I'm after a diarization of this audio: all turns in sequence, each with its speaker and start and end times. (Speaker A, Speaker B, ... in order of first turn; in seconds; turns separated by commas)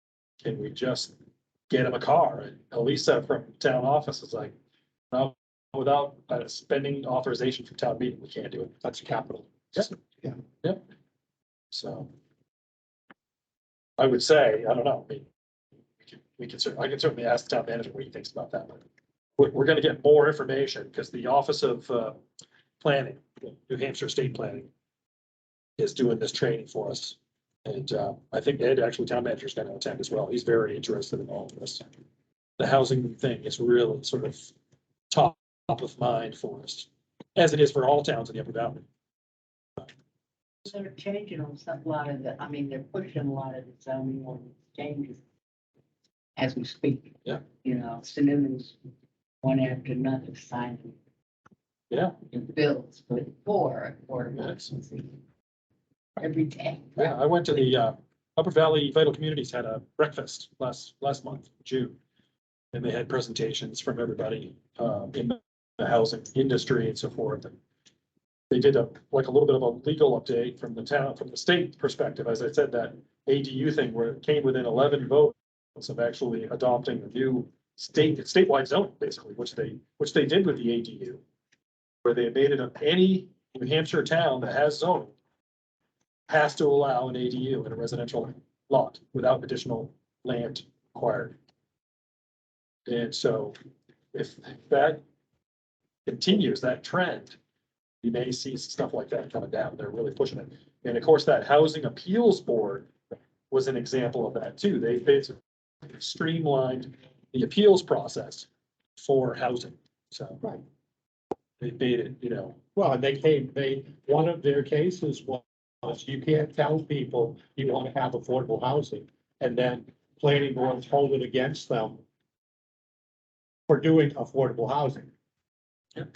Speaker A: 0.4-1.1, Speaker A: 1.7-4.5, Speaker A: 5.1-8.8, Speaker B: 8.8-10.4, Speaker A: 11.7-12.1, Speaker A: 14.0-15.3, Speaker A: 16.0-18.9, Speaker A: 19.4-22.2, Speaker A: 22.8-24.7, Speaker A: 25.8-31.9, Speaker A: 32.6-34.5, Speaker A: 35.1-38.8, Speaker C: 40.6-45.2, Speaker C: 46.4-48.8, Speaker C: 49.4-51.0, Speaker A: 51.9-52.1, Speaker C: 52.3-55.2, Speaker C: 56.2-57.2, Speaker A: 57.0-62.0, Speaker A: 62.7-67.6, Speaker A: 68.5-81.2, Speaker A: 82.0-85.1, Speaker A: 86.3-91.4, Speaker A: 92.9-93.5, Speaker A: 94.1-95.0, Speaker A: 96.1-97.4, Speaker A: 98.0-102.9, Speaker A: 103.5-110.4, Speaker A: 111.6-112.6, Speaker B: 112.8-122.0, Speaker B: 123.7-125.1